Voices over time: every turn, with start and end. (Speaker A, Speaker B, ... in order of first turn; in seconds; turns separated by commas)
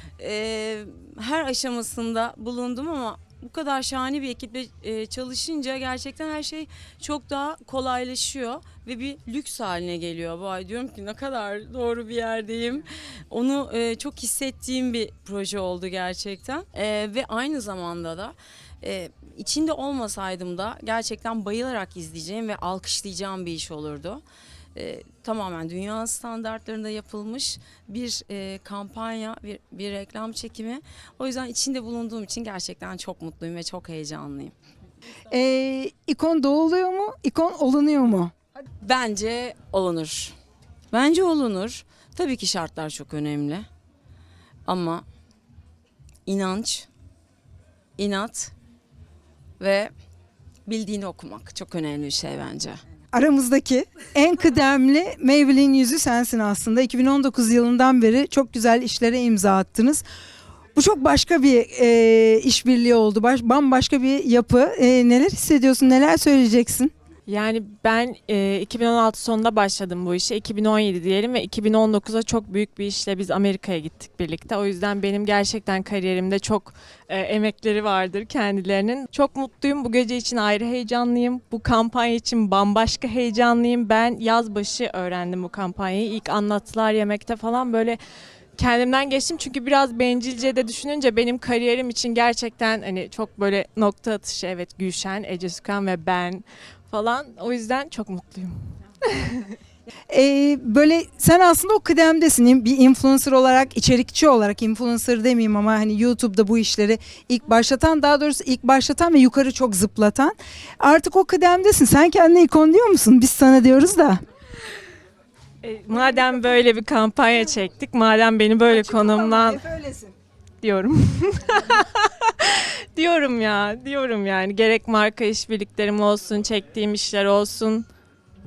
Speaker A: 0.2-24.2, Speaker A: 24.7-34.5, Speaker B: 35.3-38.3, Speaker A: 38.8-40.3, Speaker A: 40.9-43.6, Speaker A: 44.6-45.0, Speaker A: 46.2-46.9, Speaker A: 48.0-48.5, Speaker A: 49.6-49.9, Speaker A: 50.7-52.8, Speaker B: 53.1-60.0, Speaker B: 60.7-66.9, Speaker C: 67.3-88.0, Speaker C: 88.6-99.5, Speaker B: 100.1-114.2, Speaker C: 115.6-119.6, Speaker B: 118.7-120.1, Speaker C: 120.6-127.9